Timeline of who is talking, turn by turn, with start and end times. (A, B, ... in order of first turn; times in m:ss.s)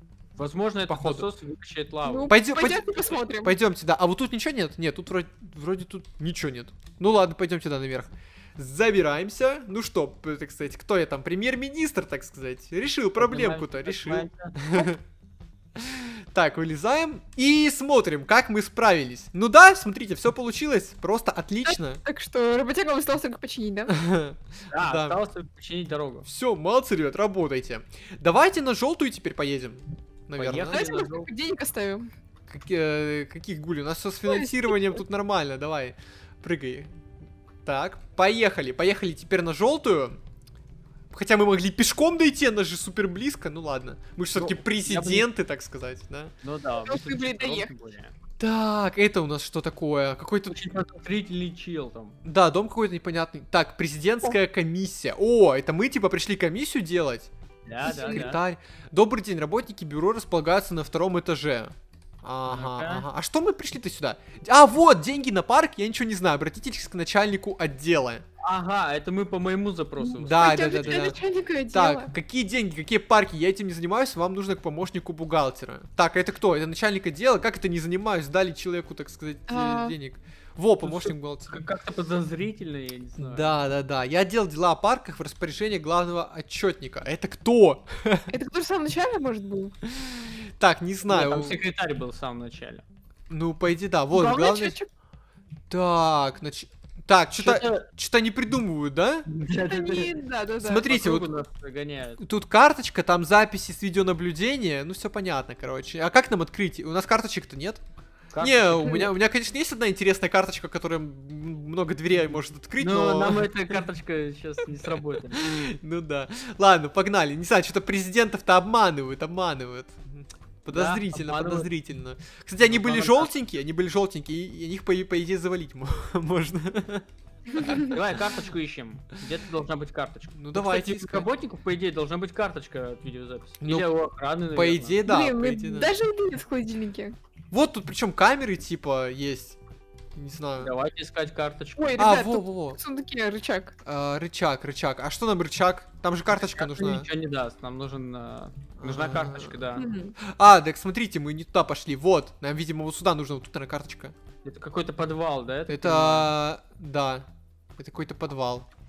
0:00.4-0:02.3 A
0:00.9-0:01.3 B
0:02.0-0:03.5 C
0:02.3-0:15.0 B
0:13.2-0:14.6 A
0:15.9-0:22.0 B
0:21.6-0:23.9 C
0:23.9-0:25.2 B
0:24.7-0:26.2 A
0:26.2-0:30.8 B
0:30.4-0:31.3 A
0:30.7-0:32.1 C
0:32.5-0:36.9 B
0:34.3-0:34.9 C
0:37.7-0:40.2 B
0:41.1-0:46.3 B
0:44.4-0:45.3 A
0:46.4-0:48.1 A
0:46.8-0:47.7 C
0:48.4-0:50.6 B
0:50.5-0:52.2 A
0:52.2-0:57.3 B
0:57.7-0:58.4 A
0:57.8-1:08.2 B
0:57.9-0:58.2 C
1:02.4-1:03.1 A
1:08.4-1:11.1 A
1:10.0-1:12.1 C
1:10.2-1:11.2 B
1:11.7-1:21.6 B
1:19.5-1:19.9 C
1:20.8-1:23.5 A
1:23.2-1:28.3 B
1:28.3-1:29.7 C
1:30.0-1:31.6 B
1:31.1-1:32.8 A
1:33.3-1:34.8 B
1:34.1-1:34.9 C
1:35.7-1:39.2 B
1:37.4-1:37.9 A
1:39.3-1:40.1 A
1:39.6-1:40.9 C
1:40.6-1:41.3 B
1:40.8-1:42.2 A
1:42.2-1:47.8 B
1:48.3-1:49.1 A
1:48.4-1:53.7 B
1:52.8-1:55.4 A
1:55.3-2:07.0 B
2:00.7-2:01.7 A
2:02.7-2:03.3 A
2:07.5-2:07.9 C
2:07.7-2:15.0 A
2:10.4-2:11.3 B
2:13.6-2:13.9 B
2:14.5-2:15.9 B
2:15.0-2:17.1 C
2:17.5-2:19.6 B
2:20.2-2:20.7 B
2:20.6-2:22.0 A
2:21.8-2:23.7 C
2:22.0-2:22.8 B
2:23.8-2:27.1 B
2:26.3-2:29.9 A
2:28.8-2:29.6 B
2:29.8-2:30.1 C
2:30.2-2:34.1 B
2:34.4-2:36.3 A
2:35.7-2:37.2 B
2:37.8-2:38.7 B